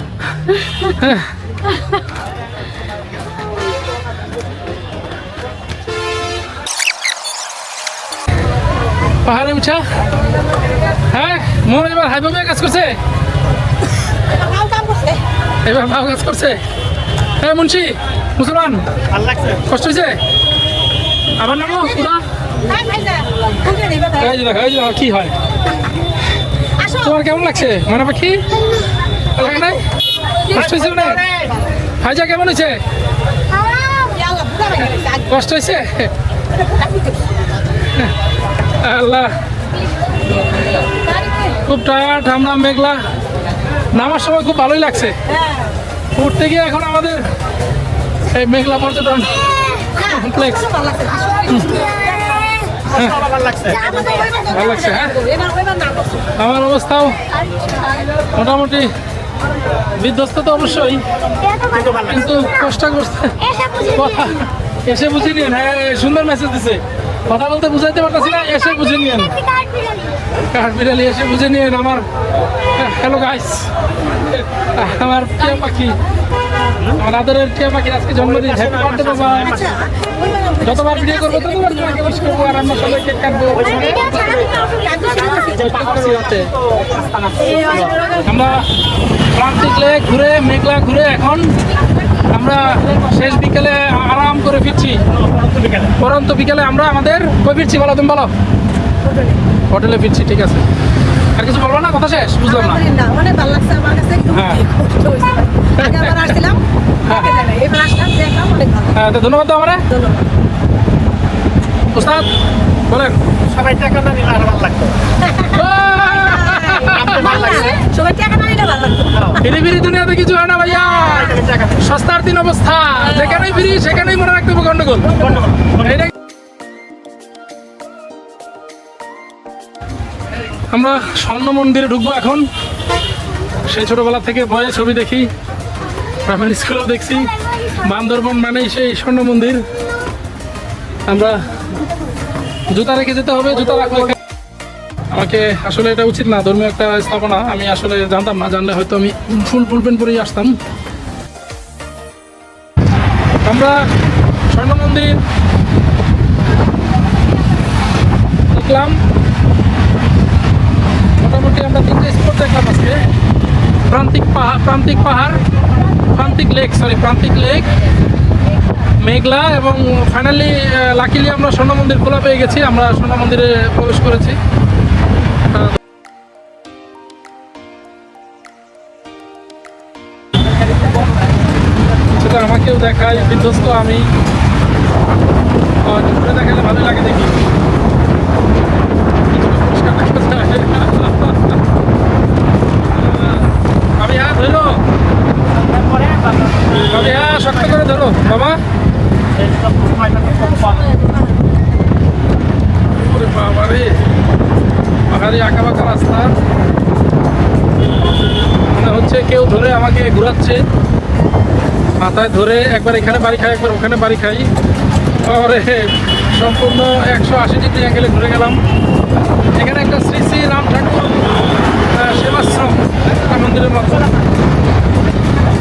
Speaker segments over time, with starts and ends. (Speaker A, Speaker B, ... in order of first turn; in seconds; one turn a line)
Speaker A: 0.8-1.3
Speaker A: 9.2-9.8
Speaker A: 11.1-12.9
Speaker B: 14.3-15.2
Speaker A: 15.6-16.6
Speaker A: 17.4-18.8
Speaker C: 19.1-19.6
Speaker A: 19.6-20.2
Speaker A: 21.4-22.2
Speaker B: 22.6-24.3
Speaker A: 24.2-25.3
Speaker A: 26.9-28.4
Speaker A: 29.3-29.8
Speaker A: 30.5-31.2
Speaker C: 30.6-31.5
Speaker A: 32.0-32.8
Speaker D: 33.5-34.3
Speaker B: 34.2-35.2
Speaker A: 35.0-36.1
Speaker A: 38.8-39.3
Speaker A: 41.5-43.0
Speaker A: 43.9-45.2
Speaker A: 46.1-47.2
Speaker A: 48.3-50.7
Speaker B: 50.1-51.6
Speaker A: 51.5-51.8
Speaker D: 51.8-52.6
Speaker A: 52.9-53.2
Speaker C: 53.0-53.9
Speaker D: 53.6-54.7
Speaker A: 54.5-55.2
Speaker B: 55.0-56.2
Speaker A: 56.4-57.1
Speaker A: 58.3-58.9
Speaker A: 60.0-61.0
Speaker D: 61.3-62.5
Speaker A: 62.0-63.4
Speaker D: 63.4-64.4
Speaker A: 63.9-69.3
Speaker D: 68.4-70.2
Speaker A: 70.5-72.0
Speaker A: 72.8-76.0
Speaker A: 77.0-79.7
Speaker A: 80.6-84.0
Speaker B: 81.4-81.9
Speaker B: 83.8-85.7
Speaker A: 85.4-86.5
Speaker C: 86.9-87.8
Speaker B: 87.4-88.2
Speaker A: 88.2-88.7
Speaker A: 89.3-91.5
Speaker A: 92.3-95.0
Speaker C: 95.3-95.9
Speaker A: 96.0-98.3
Speaker A: 99.7-100.6
Speaker A: 101.3-102.8
Speaker B: 102.4-108.9
Speaker A: 104.3-104.6
Speaker A: 105.8-106.3
Speaker A: 107.0-107.3
Speaker A: 108.9-109.8
Speaker B: 109.9-110.2
Speaker A: 111.9-112.3
Speaker A: 112.9-113.2
Speaker C: 113.5-114.9
Speaker A: 115.4-117.5
Speaker B: 115.4-119.2
Speaker C: 117.0-117.8
Speaker A: 119.3-126.1
Speaker C: 121.3-121.7
Speaker A: 130.7-132.4
Speaker A: 133.7-135.3
Speaker A: 136.2-139.6
Speaker A: 141.1-141.4
Speaker A: 142.7-144.2
Speaker A: 145.1-150.5
Speaker A: 153.4-153.8
Speaker A: 154.5-155.2
Speaker A: 158.5-159.0
Speaker A: 161.2-163.0
Speaker A: 163.9-165.4
Speaker A: 166.0-167.7
Speaker A: 169.0-174.4
Speaker A: 182.1-184.1
Speaker A: 185.8-187.4
Speaker A: 189.3-191.6
Speaker A: 192.9-194.8
Speaker C: 195.8-196.4
Speaker A: 196.7-198.6
Speaker C: 199.4-200.8
Speaker A: 202.9-203.9
Speaker A: 205.1-206.3
Speaker A: 208.7-210.6
Speaker A: 211.9-214.5
Speaker A: 215.2-218.6
Speaker A: 219.6-221.2
Speaker A: 221.9-224.1